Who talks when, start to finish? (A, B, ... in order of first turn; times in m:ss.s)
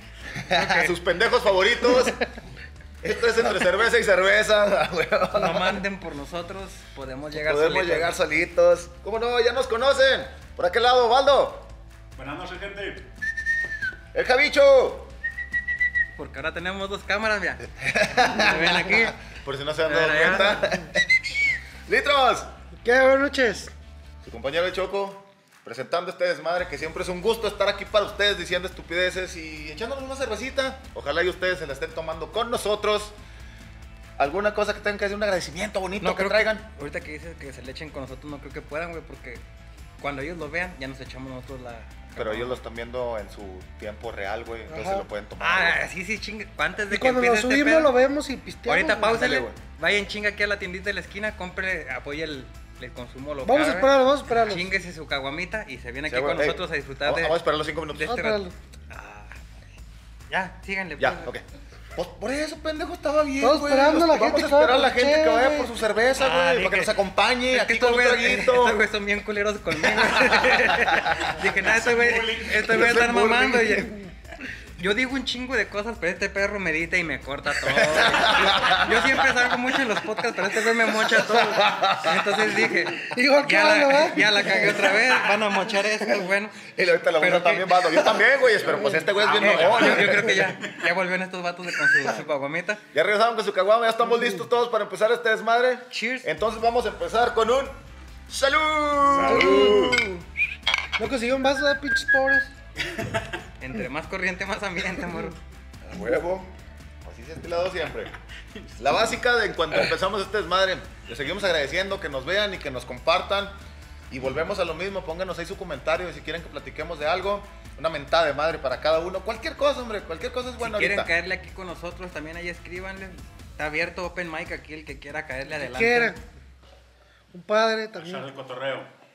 0:00.4-0:02.2 A
0:00.5-0:00.9 B
0:03.0-0:05.8 A
0:05.3-0:08.1 B
0:07.3-0:11.7 A
0:12.2-0:13.1 C
0:14.1-0:15.1 A
0:16.2-0:19.2 B
0:17.7-0:22.5 A
0:19.8-0:20.6 B
0:22.8-0:23.7 D
0:24.2-0:33.1 A
0:34.2-0:36.6 A
0:36.0-0:39.4 B
0:40.0-0:42.6 B
0:42.2-0:45.8 A
0:44.7-0:45.0 D
0:45.4-0:47.9 B
0:46.9-0:49.2 D
0:48.6-0:57.4 B
0:49.0-0:49.6 A
0:53.4-0:54.7 D
0:56.1-0:58.5 A
0:57.9-0:59.4 B
0:58.2-0:58.5 D
1:00.3-1:01.3 B
1:01.0-1:08.8 A
1:03.4-1:05.7 D
1:06.1-1:14.0 B
1:09.8-1:11.3 A
1:11.4-1:13.0 C
1:12.6-1:13.9 A
1:14.8-1:28.1 B
1:17.6-1:19.4 A
1:20.7-1:22.7 A
1:23.0-1:25.7 D
1:26.6-1:30.4 A
1:28.6-1:30.9 C
1:28.7-1:29.0 D
1:29.4-1:32.8 B
1:32.9-1:40.3 A
1:35.9-1:36.3 B
1:39.0-1:40.0 C
1:39.2-1:40.0 D
1:41.0-1:42.5 D
1:42.9-1:43.2 C
1:43.6-1:45.4 B
1:45.8-1:46.5 A
1:47.0-1:48.1 A
1:48.5-1:48.8 C
1:48.8-1:53.5 A
1:54.1-2:01.1 A
2:00.6-2:06.1 B
2:05.5-2:06.2 D
2:07.3-2:08.2 D
2:07.9-2:08.9 C